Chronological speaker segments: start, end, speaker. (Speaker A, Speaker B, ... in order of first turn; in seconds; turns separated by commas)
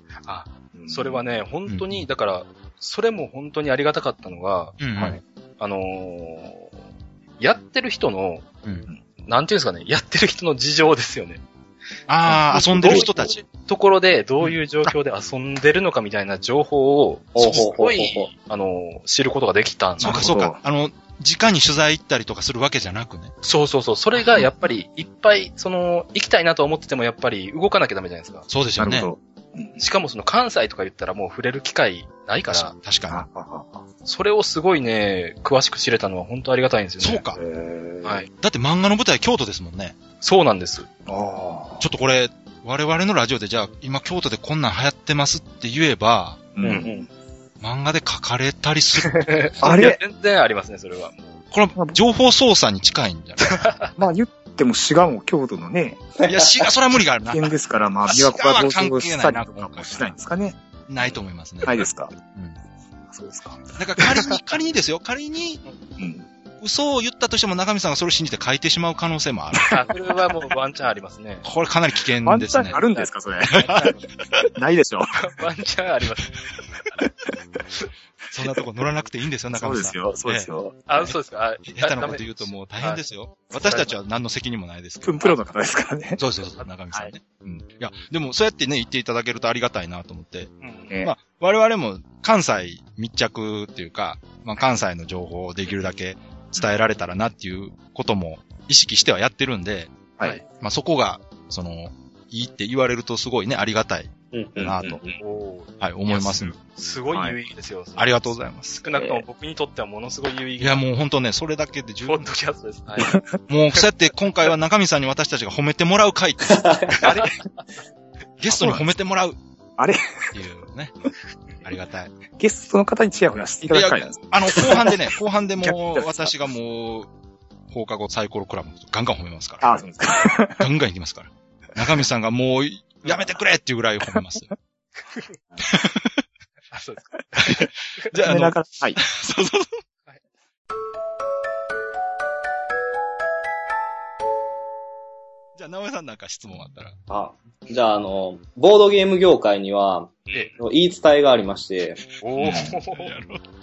Speaker A: 0.2-4.8, Speaker B: 0.7-1.2, Speaker C: 1.7-2.0, Speaker C: 4.8-5.2, Speaker A: 5.6-6.7, Speaker A: 7.4-8.5, Speaker A: 9.2-11.4, Speaker C: 12.1-13.4, Speaker A: 12.4-20.2, Speaker B: 12.5-13.1, Speaker C: 14.4-14.9, Speaker D: 17.3-18.3, Speaker B: 20.0-20.6, Speaker C: 20.0-23.3, Speaker A: 23.4-28.4, Speaker C: 28.5-29.1, Speaker B: 28.8-29.8, Speaker A: 29.8-32.7, Speaker C: 32.5-33.2, Speaker B: 33.1-33.8, Speaker A: 34.0-37.2, Speaker C: 37.0-37.4, Speaker B: 37.4-38.3, Speaker C: 38.4-40.0, Speaker A: 40.2-40.9, Speaker B: 41.0-41.9, Speaker C: 41.8-46.5, Speaker B: 46.5-47.0, Speaker D: 46.6-47.1, Speaker C: 47.6-49.3, Speaker A: 49.0-51.4, Speaker B: 49.6-50.0, Speaker C: 51.5-53.7, Speaker A: 53.4-54.0, Speaker B: 54.0-56.0, Speaker D: 56.2-56.7, Speaker C: 56.2-57.5, Speaker B: 57.2-62.1, Speaker C: 58.1-60.1, Speaker C: 60.9-62.6, Speaker B: 63.1-63.6, Speaker C: 63.8-65.6, Speaker B: 66.0-66.2, Speaker C: 66.6-69.8, Speaker A: 69.7-71.5, Speaker C: 71.4-72.8, Speaker B: 72.2-73.9, Speaker A: 72.9-74.0, Speaker C: 73.6-73.9, Speaker B: 74.5-75.2, Speaker A: 75.2-76.3, Speaker C: 78.3-81.1, Speaker B: 79.5-80.9, Speaker A: 80.9-83.9, Speaker C: 81.7-85.2, Speaker B: 85.0-86.2, Speaker C: 86.2-99.9, Speaker A: 90.6-91.0, Speaker C: 100.5-105.0, Speaker D: 104.3-105.0, Speaker B: 104.6-105.0, Speaker A: 105.2-110.8, Speaker C: 105.8-106.5, Speaker B: 107.1-107.4, Speaker C: 108.0-108.8, Speaker D: 108.9-109.2, Speaker C: 110.6-112.3, Speaker A: 112.0-113.2, Speaker C: 113.5-117.0, Speaker D: 116.5-117.1, Speaker A: 117.0-117.6, Speaker C: 118.4-119.4, Speaker B: 118.5-118.9, Speaker B: 119.8-120.2, Speaker C: 120.3-120.9, Speaker C: 121.6-122.1, Speaker B: 122.4-125.1, Speaker C: 123.7-127.1, Speaker B: 125.6-126.3, Speaker C: 127.7-134.5, Speaker B: 129.6-130.7, Speaker C: 135.6-136.2, Speaker A: 136.7-138.1, Speaker C: 137.5-139.8, Speaker B: 138.2-139.0, Speaker C: 145.6-146.9, Speaker D: 147.1-152.0, Speaker A: 152.2-153.1, Speaker C: 152.4-153.4, Speaker B: 152.4-152.7